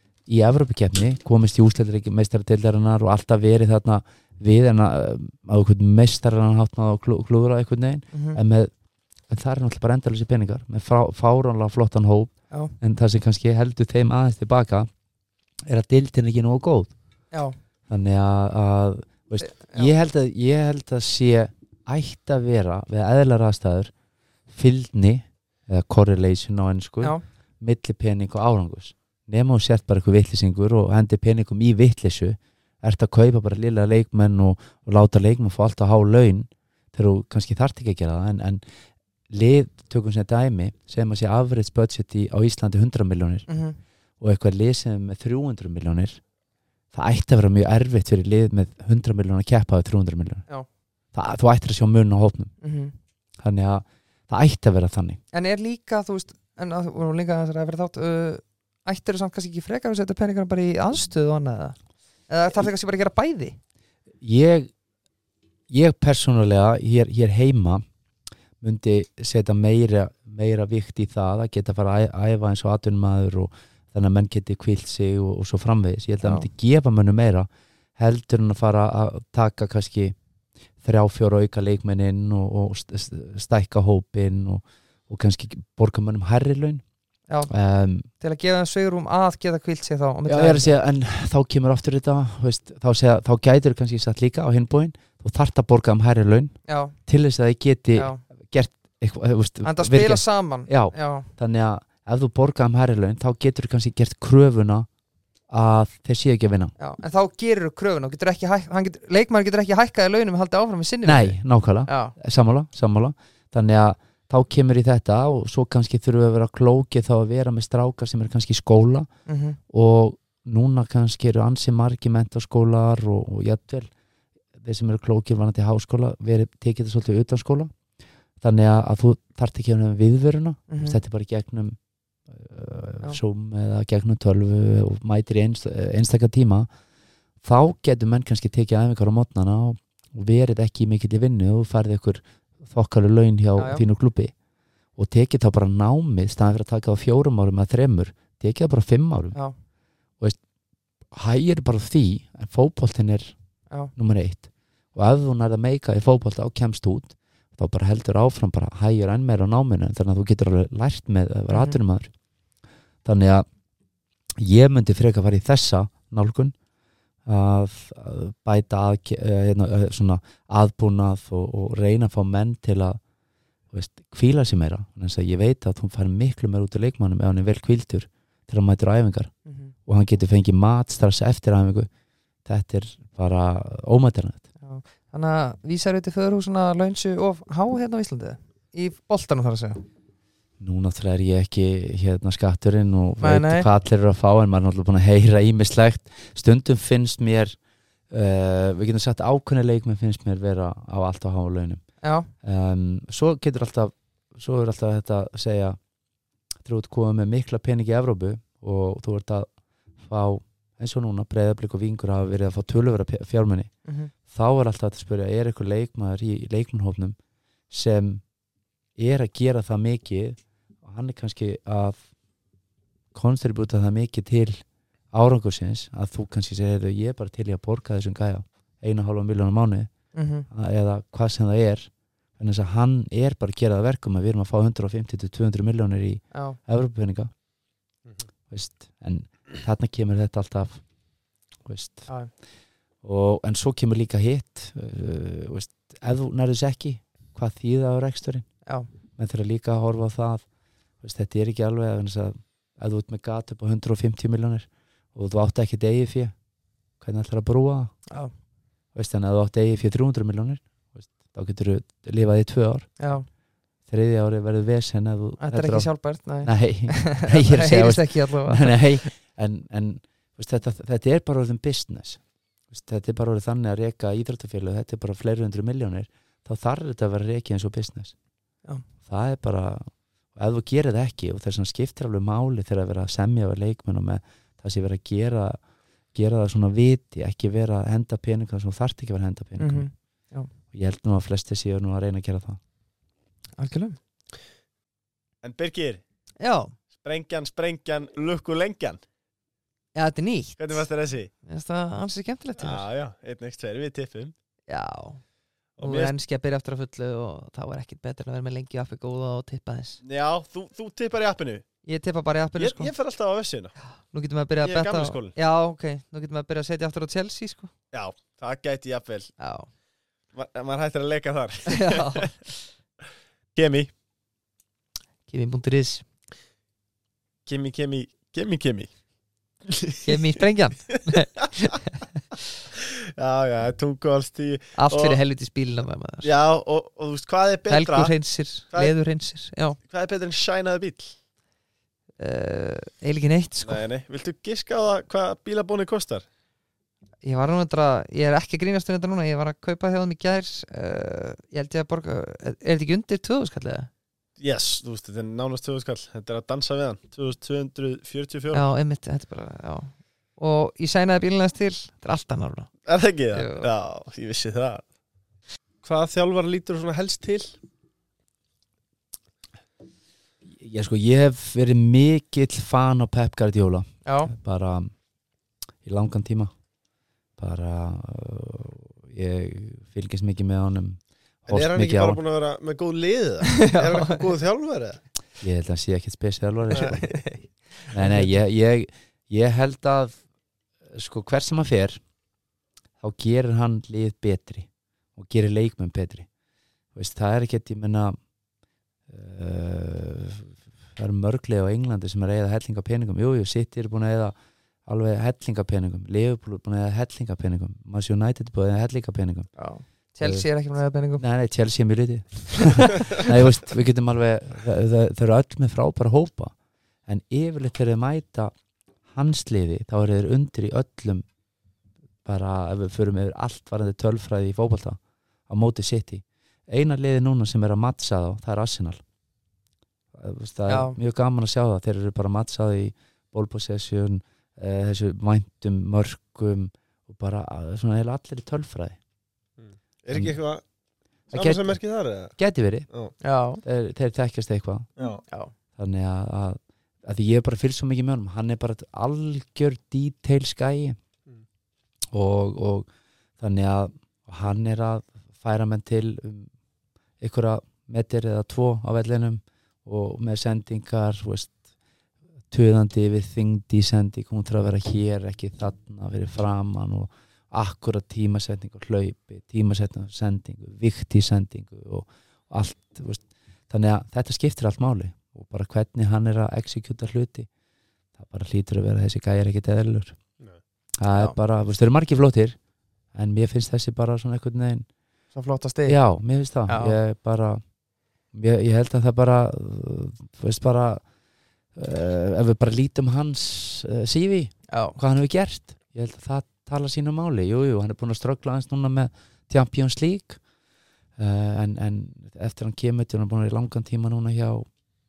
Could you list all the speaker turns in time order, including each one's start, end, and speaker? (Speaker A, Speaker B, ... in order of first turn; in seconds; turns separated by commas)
Speaker A: 0.3-8.7, Speaker B: 8.1-8.4, Speaker A: 9.3-14.9, Speaker A: 15.7-16.9, Speaker B: 17.3-17.6, Speaker A: 17.9-23.9, Speaker B: 19.4-19.9, Speaker A: 24.5-38.6, Speaker A: 39.3-43.5, Speaker B: 43.5-43.8, Speaker A: 44.2-46.2, Speaker A: 46.9-50.5, Speaker A: 51.1-52.5, Speaker B: 52.6-53.0, Speaker A: 53.4-55.2, Speaker B: 55.3-61.8, Speaker B: 62.3-63.6, Speaker A: 64.2-64.7, Speaker A: 65.7-67.8, Speaker A: 68.6-80.2, Speaker B: 76.2-76.5, Speaker A: 80.8-86.8, Speaker A: 87.5-88.1, Speaker B: 88.2-90.7, Speaker A: 90.3-104.9, Speaker B: 96.7-97.0, Speaker B: 98.0-98.2, Speaker B: 99.6-101.3, Speaker A: 105.5-106.7, Speaker B: 106.8-112.2, Speaker A: 111.0-119.1, Speaker B: 119.3-119.6, Speaker A: 119.7-123.9, Speaker A: 124.6-127.7, Speaker A: 128.4-131.8, Speaker B: 130.7-131.0, Speaker A: 132.3-136.7, Speaker A: 137.4-144.3, Speaker B: 143.6-143.8, Speaker A: 145.0-149.4, Speaker A: 151.1-153.4, Speaker A: 153.9-162.1, Speaker B: 161.5-161.8, Speaker A: 163.1-163.5, Speaker A: 164.4-166.6, Speaker A: 167.3-173.0, Speaker A: 173.7-179.3, Speaker B: 179.5-179.7, Speaker A: 179.9-181.9, Speaker A: 182.4-184.5, Speaker B: 184.6-189.8, Speaker A: 190.6-197.6, Speaker B: 193.2-193.7, Speaker A: 198.1-201.8, Speaker B: 202.0-202.3, Speaker A: 202.4-205.8, Speaker A: 206.6-209.5, Speaker A: 210.0-213.7, Speaker B: 213.8-214.1, Speaker A: 214.3-217.2, Speaker A: 217.7-218.2, Speaker A: 219.0-222.1, Speaker A: 223.1-229.9, Speaker B: 230.1-230.5, Speaker A: 230.5-237.3, Speaker B: 236.3-236.6, Speaker A: 238.5-240.8, Speaker A: 241.7-242.1, Speaker A: 243.0-248.5, Speaker A: 249.2-250.5, Speaker A: 251.0-256.4, Speaker A: 257.0-258.0, Speaker A: 258.9-263.0, Speaker B: 263.0-263.3, Speaker A: 263.9-278.1, Speaker B: 265.4-269.1, Speaker A: 279.0-285.6, Speaker A: 286.1-289.9, Speaker B: 289.6-290.5, Speaker A: 290.7-292.6, Speaker B: 293.6-294.0, Speaker C: 295.4-296.0, Speaker B: 296.4-296.7, Speaker C: 297.0-299.0, Speaker B: 299.9-300.9, Speaker C: 300.6-301.3, Speaker B: 301.5-302.9, Speaker C: 302.6-304.3, Speaker B: 304.7-305.2, Speaker C: 305.8-306.1, Speaker B: 305.8-310.0, Speaker C: 310.0-311.6, Speaker B: 311.9-312.9, Speaker C: 312.6-313.8, Speaker B: 313.8-317.7, Speaker C: 314.6-315.4, Speaker C: 317.9-319.4, Speaker B: 319.4-319.7, Speaker C: 320.3-322.3, Speaker B: 321.7-322.5, Speaker C: 323.6-323.9, Speaker B: 325.3-326.0, Speaker C: 327.5-328.9, Speaker C: 329.7-330.1, Speaker B: 330.1-332.0, Speaker C: 332.8-335.2, Speaker B: 334.8-336.3, Speaker C: 336.2-338.2, Speaker B: 337.7-339.8, Speaker C: 339.8-341.1, Speaker B: 342.2-343.8, Speaker C: 343.6-346.3, Speaker B: 347.2-353.9, Speaker C: 354.4-358.7, Speaker B: 358.5-362.7, Speaker C: 362.9-364.9, Speaker B: 363.3-363.7, Speaker C: 365.8-367.6, Speaker A: 370.6-374.9, Speaker B: 374.1-374.3, Speaker A: 375.8-376.5, Speaker A: 377.4-382.2, Speaker C: 381.5-385.0, Speaker B: 383.5-384.3, Speaker A: 385.4-387.1, Speaker B: 386.7-388.3, Speaker C: 386.8-387.0, Speaker A: 387.9-390.2, Speaker A: 390.9-392.0, Speaker A: 393.0-396.3, Speaker A: 396.9-398.2, Speaker A: 399.1-409.5, Speaker B: 409.6-411.2, Speaker A: 411.2-416.5, Speaker A: 417.1-418.5, Speaker A: 419.1-421.3, Speaker A: 422.2-429.0, Speaker A: 430.1-439.0, Speaker B: 430.7-431.0, Speaker C: 439.6-440.6, Speaker A: 440.1-440.4, Speaker A: 441.3-442.9, Speaker C: 441.3-442.4, Speaker B: 443.2-443.6, Speaker A: 443.6-444.9, Speaker C: 445.0-445.2, Speaker A: 445.8-451.0, Speaker A: 452.1-452.9, Speaker A: 453.4-456.5, Speaker A: 457.2-461.6, Speaker A: 462.5-477.5, Speaker A: 478.2-480.2, Speaker A: 481.0-482.6, Speaker A: 483.1-484.9, Speaker B: 485.3-486.0, Speaker A: 485.9-487.6, Speaker B: 486.7-487.0, Speaker A: 488.3-491.0, Speaker A: 491.8-500.4, Speaker B: 494.7-495.0, Speaker A: 501.2-504.7